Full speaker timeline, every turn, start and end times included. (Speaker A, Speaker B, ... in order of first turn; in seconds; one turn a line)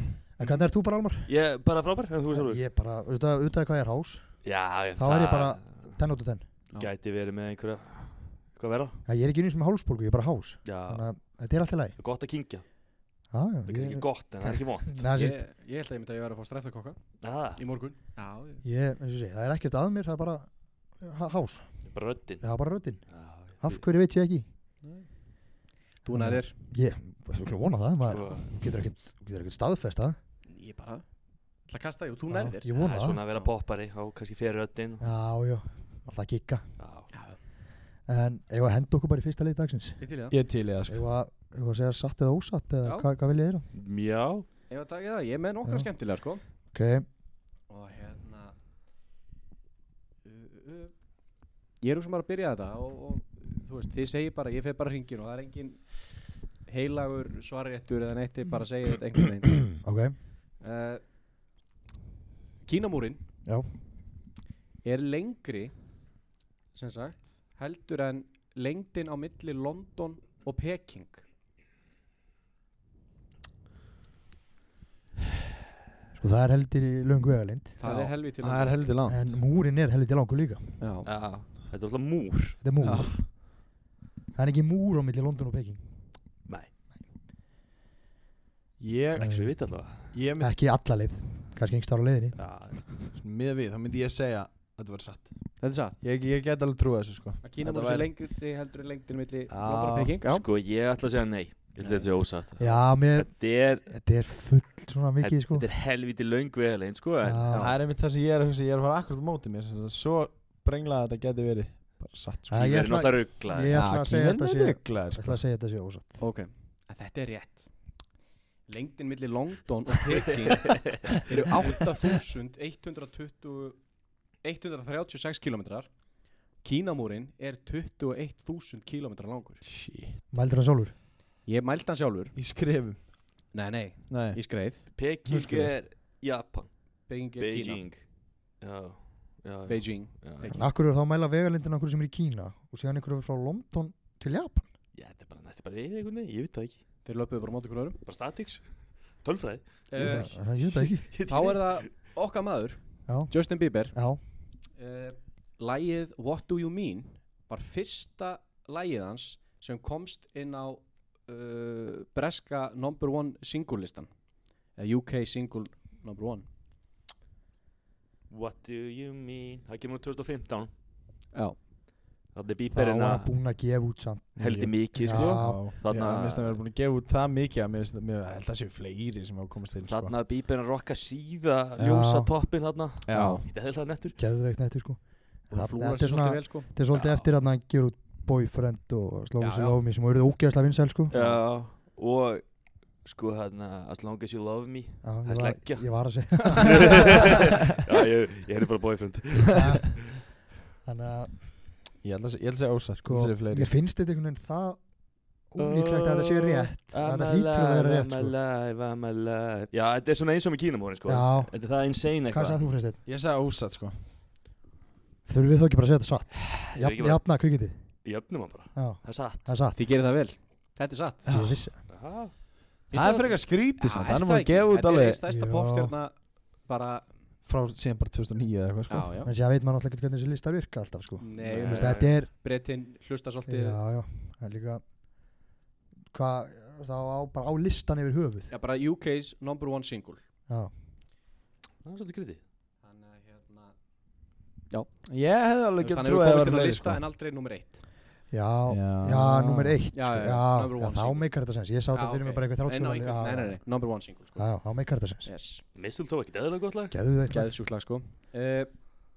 Speaker A: 0.4-1.3
Speaker B: 1.3-2.6
Speaker A: 2.3-4.4
Speaker B: 4.4-5.6
Speaker A: 5.0-6.5
Speaker B: 6.8-9.0
Speaker A: 9.1-12.0
Speaker B: 10.7-11.1
Speaker B: 12.0-12.7
Speaker A: 13.3-15.4
Speaker B: 13.7-15.1
Speaker C: 15.2-17.0
Speaker B: 17.2-17.6
Speaker C: 17.6-18.6
Speaker A: 18.6-21.8
Speaker B: 21.9-22.4
Speaker A: 22.4-24.5
Speaker B: 23.1-23.8
Speaker C: 24.8-25.1
Speaker C: 26.0-26.5
Speaker A: 26.1-30.2
Speaker B: 28.1-28.5
Speaker C: 30.5-31.0
Speaker C: 31.7-32.7
Speaker A: 32.3-33.2
Speaker B: 32.8-35.1
Speaker A: 35.0-36.7
Speaker B: 36.8-37.1
Speaker C: 37.1-37.4
Speaker A: 38.0-40.0
Speaker C: 40.0-40.4
Speaker D: 40.3-41.0
Speaker A: 40.9-43.7
Speaker B: 43.7-44.5
Speaker C: 44.7-46.4
Speaker A: 45.6-45.9
Speaker A: 46.7-47.1
Speaker C: 47.7-48.5
Speaker C: 50.2-50.9
Speaker C: 51.8-55.9
Speaker C: 56.7-59.7
Speaker A: 59.7-60.2
Speaker C: 60.6-61.0
Speaker C: 62.7-63.2
Speaker C: 64.8-65.7
Speaker C: 66.7-71.2
Speaker A: 76.1-77.8
Speaker C: 77.8-78.8
Speaker D: 77.8-79.3
Speaker A: 79.1-80.8
Speaker C: 80.8-81.1
Speaker B: 81.0-82.6
Speaker A: 82.6-83.3
Speaker D: 82.8-83.3
Speaker A: 84.3-85.8
Speaker D: 88.8-89.3
Speaker B: 89.2-90.1
Speaker A: 89.2-92.4
Speaker D: 90.1-90.5
Speaker B: 92.3-92.9
Speaker D: 93.2-98.1
Speaker C: 95.6-96.0
Speaker C: 97.4-100.5
Speaker D: 99.5-100.2
Speaker B: 100.3-103.9
Speaker C: 101.8-102.1
Speaker A: 102.6-105.7
Speaker B: 105.2-107.5
Speaker A: 107.2-107.8
Speaker D: 107.5-112.6
Speaker A: 112.5-116.2
Speaker B: 112.5-113.8
Speaker D: 113.7-115.4
Speaker C: 116.2-117.7
Speaker C: 118.7-123.8
Speaker C: 124.4-125.9
Speaker C: 126.6-129.6
Speaker D: 129.7-130.2
Speaker A: 130.3-130.9
Speaker C: 131.4-132.3
Speaker D: 132.3-133.0
Speaker C: 133.5-134.9
Speaker D: 134.1-134.4
Speaker B: 134.9-136.7
Speaker A: 135.3-135.8
Speaker C: 137.1-137.9
Speaker B: 137.3-140.6
Speaker C: 139.7-140.7
Speaker A: 140.5-144.7
Speaker B: 144.9-146.8
Speaker C: 147.1-148.0
Speaker B: 148.1-151.8
Speaker C: 149.9-150.4
Speaker A: 150.0-151.2
Speaker C: 151.3-153.9
Speaker A: 153.1-154.2
Speaker C: 154.8-164.1
Speaker C: 164.8-166.5
Speaker B: 168.3-170.7
Speaker C: 171.3-171.6
Speaker B: 172.3-173.3
Speaker A: 172.7-175.7
Speaker D: 174.4-180.2
Speaker B: 174.4-176.6
Speaker B: 179.8-184.2
Speaker A: 181.8-182.3
Speaker D: 183.1-183.5
Speaker C: 183.1-183.4
Speaker A: 184.2-191.2
Speaker C: 185.5-186.7
Speaker B: 186.9-187.3
Speaker C: 189.4-189.8
Speaker B: 191.1-192.5
Speaker B: 193.0-195.9
Speaker A: 195.0-197.4
Speaker B: 196.4-199.6
Speaker A: 199.5-200.2
Speaker A: 200.8-201.6
Speaker D: 202.0-203.7
Speaker A: 203.0-204.9
Speaker A: 205.5-208.3
Speaker B: 205.6-212.6
Speaker A: 211.1-211.7
Speaker A: 212.3-213.0
Speaker D: 213.1-214.0
Speaker A: 215.3-217.8
Speaker B: 216.5-217.2
Speaker B: 218.0-219.5
Speaker A: 218.8-219.8
Speaker C: 219.7-221.3
Speaker D: 221.3-221.7
Speaker A: 221.3-221.8
Speaker B: 221.9-222.3
Speaker D: 222.9-225.2
Speaker C: 222.9-227.1
Speaker A: 225.3-225.9
Speaker D: 227.4-229.2
Speaker C: 228.9-229.3
Speaker A: 229.2-232.3
Speaker C: 231.2-233.8
Speaker B: 231.4-232.2
Speaker A: 233.5-234.8
Speaker A: 236.1-238.5
Speaker C: 238.5-240.2
Speaker A: 240.5-240.7
Speaker B: 241.8-242.4
Speaker C: 242.8-243.8
Speaker C: 244.7-245.0
Speaker D: 245.1-247.0
Speaker C: 245.8-247.8
Speaker A: 248.3-253.6
Speaker D: 248.7-249.8
Speaker C: 249.9-251.3
Speaker C: 251.9-254.5
Speaker A: 254.4-255.3
Speaker C: 255.2-255.6
Speaker B: 255.8-256.9
Speaker A: 256.9-257.5
Speaker C: 257.3-258.7